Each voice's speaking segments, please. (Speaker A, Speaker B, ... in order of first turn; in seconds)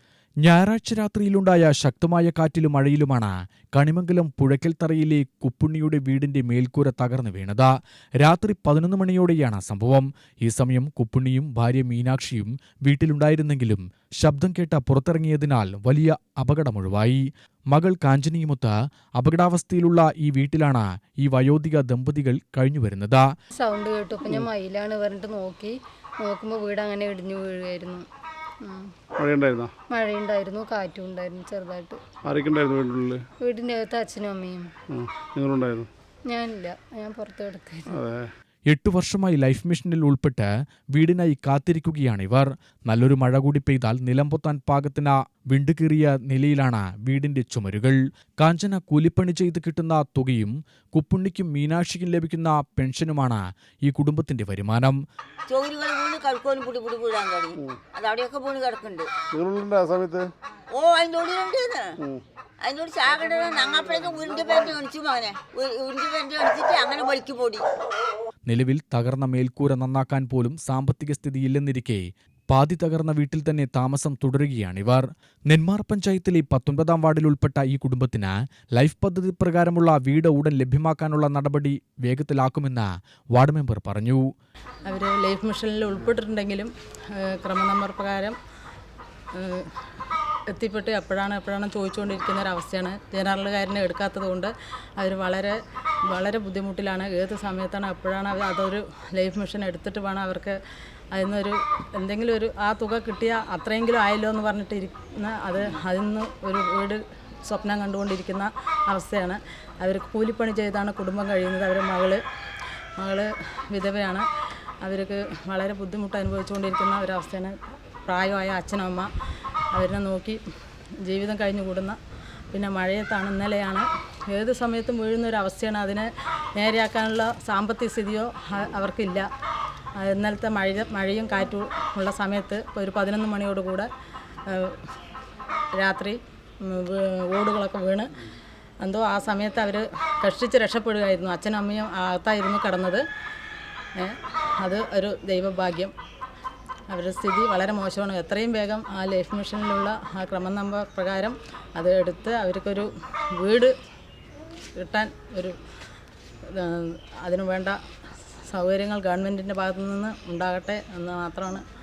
Speaker A: 0.4-23.3, 38.7-55.0, 68.5-84.2
Speaker B: 23.6-28.1, 28.6-28.9, 29.9-32.0, 33.4-34.7, 36.3-38.0
Speaker C: 29.2-29.7, 32.2-33.2, 34.9-35.9, 37.9-38.3, 59.3-60.3
Speaker D: 55.5-59.1, 60.7-62.0, 62.6-67.6
Speaker E: 84.9-88.4, 89.3-89.7, 90.5-95.6, 96.1-100.6, 101.1-112.2, 113.0-114.2, 114.8-117.5, 118.1-119.1, 119.7-120.4, 121.1-122.0, 122.5-129.3, 130.0-133.9, 134.5-134.8, 135.8-138.1, 138.8-143.0, 144.0-145.9, 146.9-153.7, 154.8-155.6, 156.6-157.8, 158.5-161.6